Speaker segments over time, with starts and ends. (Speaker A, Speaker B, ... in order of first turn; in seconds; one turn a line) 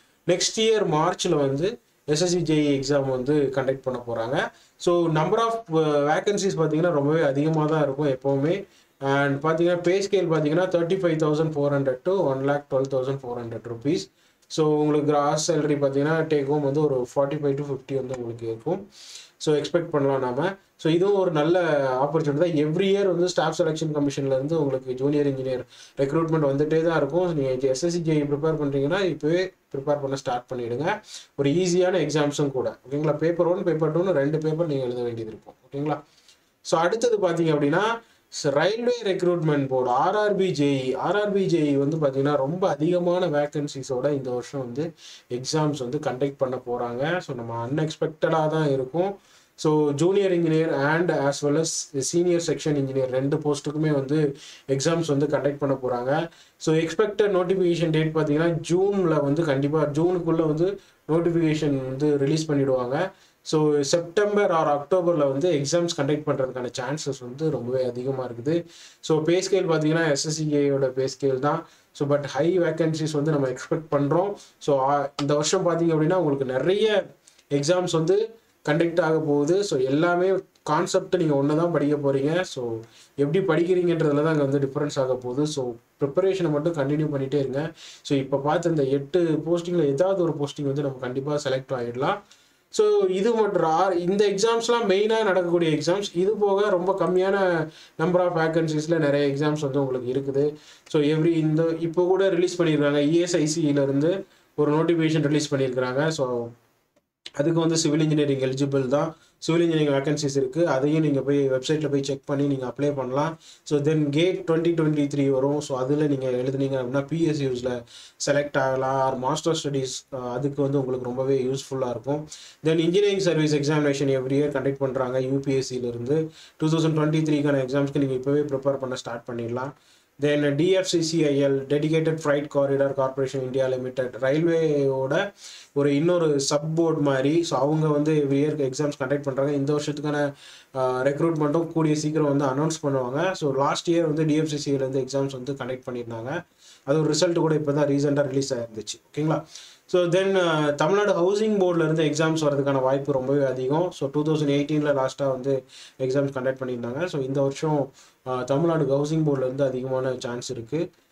Speaker A: 0.3-18.8
Speaker A: 19.4-36.0
Speaker A: 36.7-77.0
Speaker A: 77.5-92.2
Speaker A: 92.7-106.5
Speaker A: 107.4-135.2
Speaker A: 135.8-146.4
Speaker A: 146.9-160.8